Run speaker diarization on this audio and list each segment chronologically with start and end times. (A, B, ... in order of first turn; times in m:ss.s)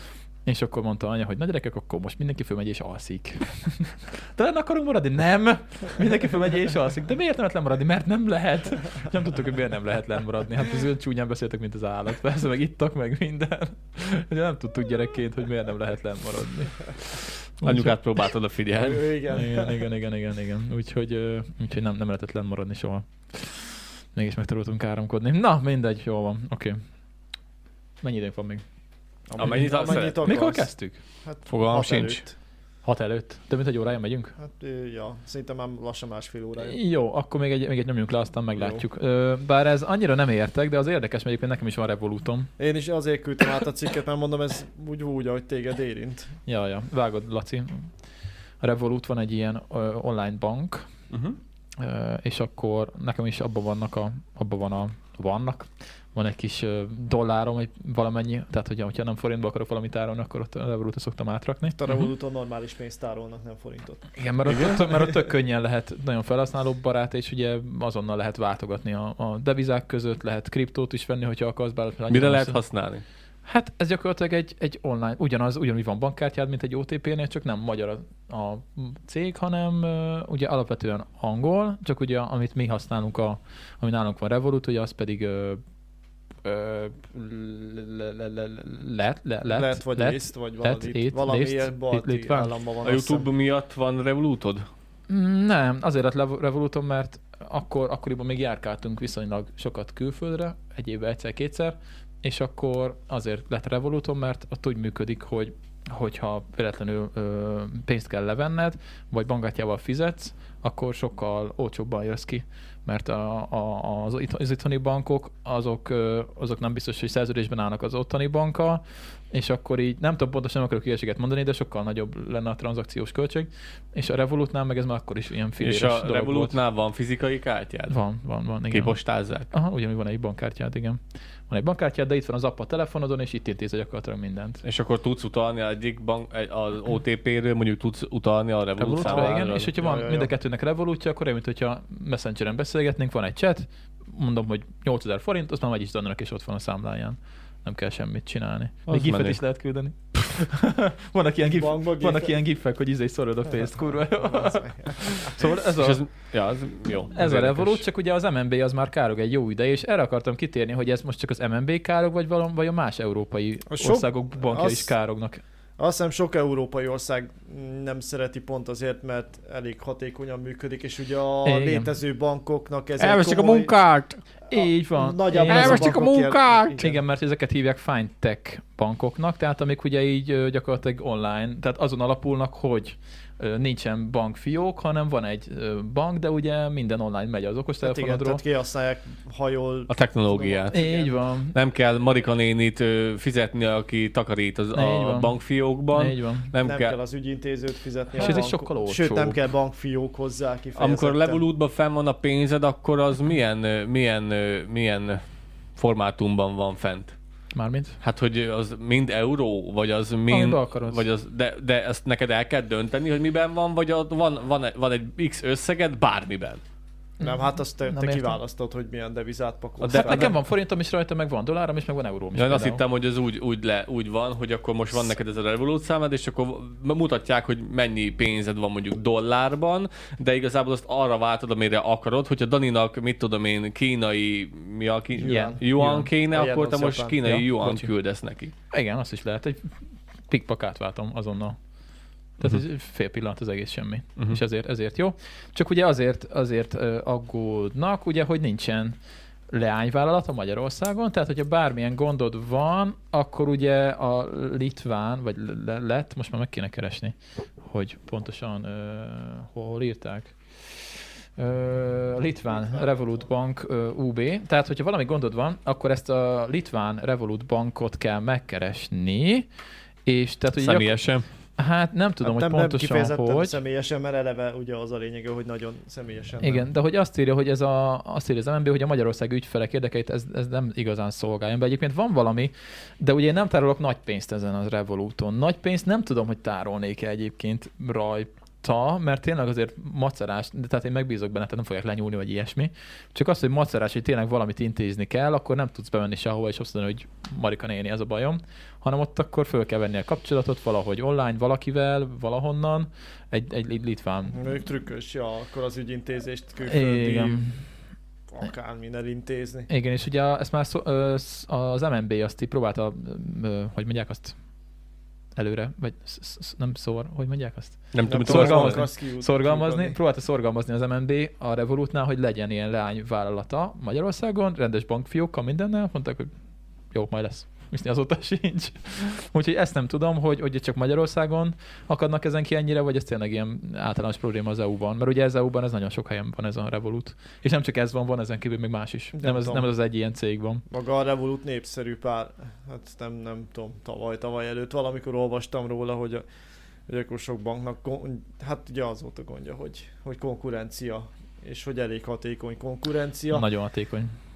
0:00.4-0:18.0 A
0:17.6-0:19.0 B
0:18.8-0:19.8 C
0:19.3-0:26.8 A
0:28.0-0:28.6 A
0:29.3-0:30.7 C
0:29.4-0:30.3 B
0:30.2-0:31.0 A
0:31.2-0:32.3 C
0:31.4-0:32.2 B
0:32.8-0:34.3 A
0:34.4-0:36.8 C
0:36.6-0:42.5 A
0:38.6-0:38.8 C
0:42.6-0:46.3 C
0:46.4-0:47.9 A
0:48.6-0:50.9 A
0:51.1-0:51.4 B
0:51.8-1:02.1 A
1:01.7-1:04.1 C
1:04.2-1:12.6 A
1:04.4-1:05.1 B
1:12.1-1:13.0 B
1:13.4-1:25.6 A
1:26.4-1:32.5 A
1:29.4-1:33.3 C
1:32.8-1:34.6 B
1:35.1-2:06.6 A
2:05.6-2:08.0 B
2:07.9-2:09.0 A
2:08.7-2:09.5 B
2:09.5-2:14.6 A
2:14.6-2:19.7 B
2:18.8-2:36.0 A
2:19.0-2:20.3 C
2:28.9-2:29.4 B
2:31.4-2:32.3 C
2:33.6-2:35.3 C
2:35.8-2:37.8 B
2:37.1-2:45.4 A
2:43.7-2:44.9 C
2:45.8-2:53.7 C
2:51.4-2:51.9 A
2:53.0-2:54.2 B
2:54.5-2:56.0 A
2:54.5-2:57.0 C
2:55.4-2:56.8 B
2:56.7-3:08.4 A
3:07.8-3:11.1 C
3:09.9-3:10.8 B
3:10.7-3:11.6 A
3:11.5-3:16.9 B
3:14.7-3:15.4 A
3:15.9-3:16.5 A
3:16.6-3:21.4 C
3:18.2-3:19.4 A
3:20.8-3:25.2 B
3:25.8-3:27.1 B
3:27.5-3:28.0 A
3:28.0-3:36.6 B
3:30.3-3:31.0 A
3:37.2-3:38.4 A
3:37.2-3:40.3 C
3:39.8-3:42.8 A
3:39.8-3:40.3 B
3:42.4-3:58.5 B
3:55.2-3:55.6 C
3:55.2-3:56.1 A
3:56.3-3:57.2 C
3:57.2-3:57.9 A
3:58.7-3:59.7 A
4:00.3-4:01.6 A
4:02.4-4:09.0 A
4:09.5-4:20.4 A
4:21.4-4:29.5 A
4:22.5-4:23.3 C
4:30.0-4:31.0 A
4:30.6-4:31.2 B
4:31.6-4:33.6 A
4:32.2-4:36.6 C
4:36.4-5:04.5 A
5:04.3-5:07.5 C
5:06.6-5:07.6 A
5:08.3-5:09.7 C
5:09.7-5:14.4 A
5:15.4-5:26.3 A
5:17.9-5:18.8 B
5:18.0-5:20.0 C
5:26.9-5:40.6 A
5:39.2-5:39.7 C
5:40.7-5:46.2 C
5:46.9-5:53.4 C
5:53.3-5:54.1 A